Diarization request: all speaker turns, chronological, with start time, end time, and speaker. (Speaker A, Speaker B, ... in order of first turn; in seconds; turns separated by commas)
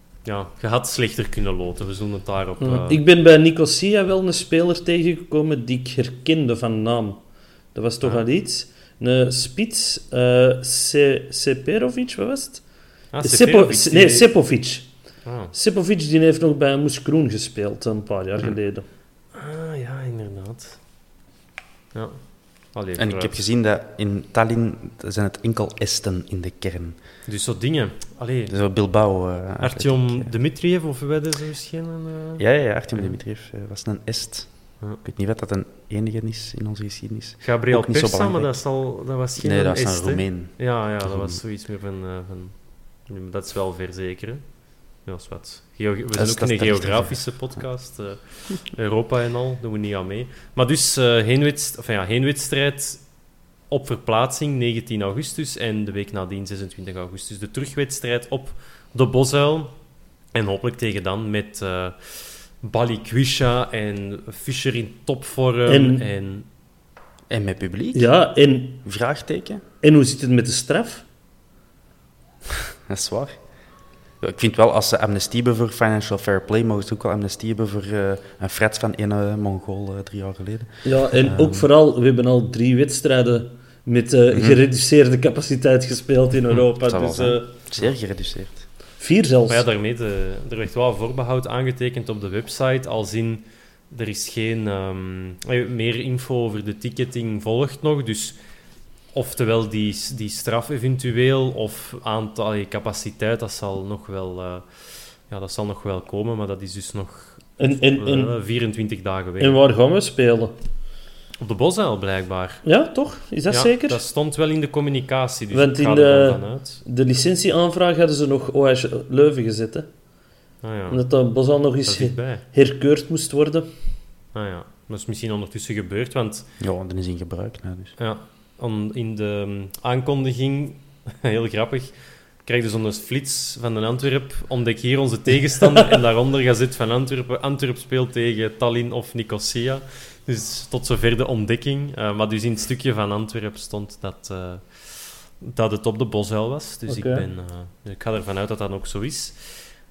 Speaker A: 0.2-3.0, Speaker B: 2.6-15.0, Speaker A: 13.1-14.3, Speaker A: 15.2-15.5, Speaker B: 15.5-18.9, Speaker A: 19.4-20.8, Speaker A: 21.9-23.4, Speaker C: 23.0-27.0, Speaker A: 27.3-28.6, Speaker C: 28.5-30.3, Speaker A: 29.6-33.2, Speaker C: 32.4-38.8, Speaker A: 37.4-53.1, Speaker C: 39.4-41.4, Speaker C: 46.2-47.7, Speaker A: 53.7-59.8, Speaker A: 60.3-66.5, Speaker B: 65.7-66.0, Speaker C: 67.3-68.2, Speaker B: 67.9-68.8, Speaker C: 68.8-69.6, Speaker B: 69.8-71.0, Speaker C: 72.9-73.4, Speaker C: 74.2-81.7, Speaker B: 80.8-87.5, Speaker C: 84.3-84.6, Speaker C: 86.8-88.7, Speaker B: 89.0-89.7, Speaker A: 89.5-98.4, Speaker A: 99.1-104.7, Speaker A: 105.2-109.6, Speaker B: 107.6-108.3, Speaker B: 109.4-110.6, Speaker A: 111.4-112.7, Speaker B: 112.6-114.0, Speaker A: 113.5-116.8, Speaker B: 115.5-119.9, Speaker A: 120.6-121.1, Speaker B: 120.9-123.7, Speaker A: 121.9-122.4, Speaker A: 124.3-126.5, Speaker C: 126.6-128.0, Speaker A: 128.0-149.6, Speaker B: 146.9-147.3